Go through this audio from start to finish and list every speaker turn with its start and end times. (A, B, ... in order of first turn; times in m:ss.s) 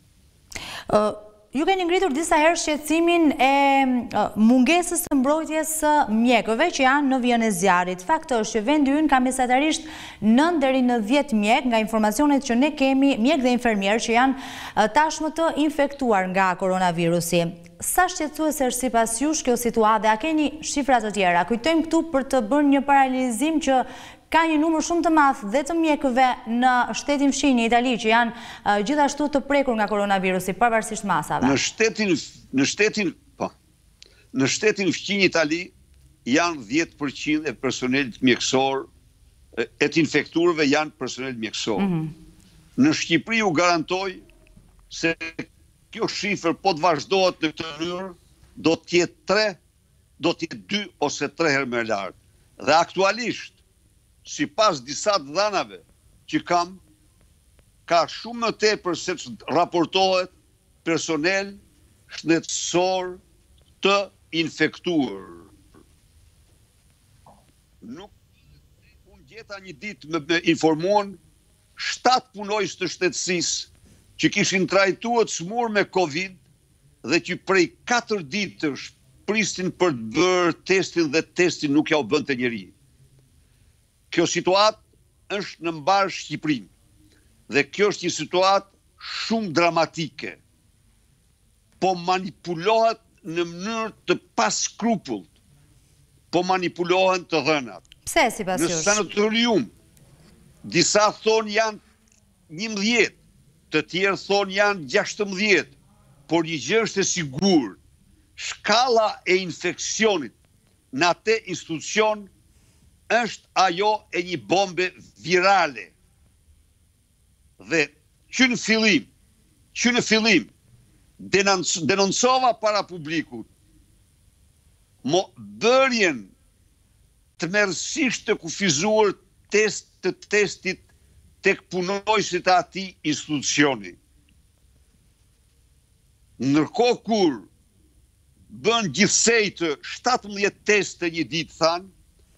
0:00.9-0:31.6 A
0:31.4-0:33.5 B
0:34.3-0:35.7 B
0:36.2-0:38.9 B
0:39.5-0:41.9 B
0:41.8-0:42.1 A
0:42.8-0:44.2 B
0:44.9-0:49.6 B
0:50.2-0:53.6 B
0:54.2-0:56.8 B
0:57.9-1:00.3 B
1:00.8-1:03.2 B
1:03.8-1:05.5 B
1:07.8-1:08.1 B
1:09.0-1:11.2 B
1:11.8-1:16.4 B
1:17.0-1:22.7 B
1:24.1-1:26.7 B
1:27.5-1:30.4 B
1:31.8-1:35.3 B
1:36.3-1:37.8 B
1:38.0-1:39.0 A
1:38.5-1:39.7 B
1:40.6-1:41.8 B
1:42.5-1:43.2 B
1:43.7-1:45.7 B
1:46.3-1:47.8 B
1:48.4-1:50.3 B
1:50.9-1:52.3 B
1:53.1-1:55.9 B
1:57.6-1:59.1 B
1:59.7-2:00.5 B
2:01.2-2:03.5 B
2:05.0-2:06.3 B
2:07.4-2:10.8 B
2:11.4-2:14.0 B
2:16.4-2:17.5 B
2:18.5-2:21.9 B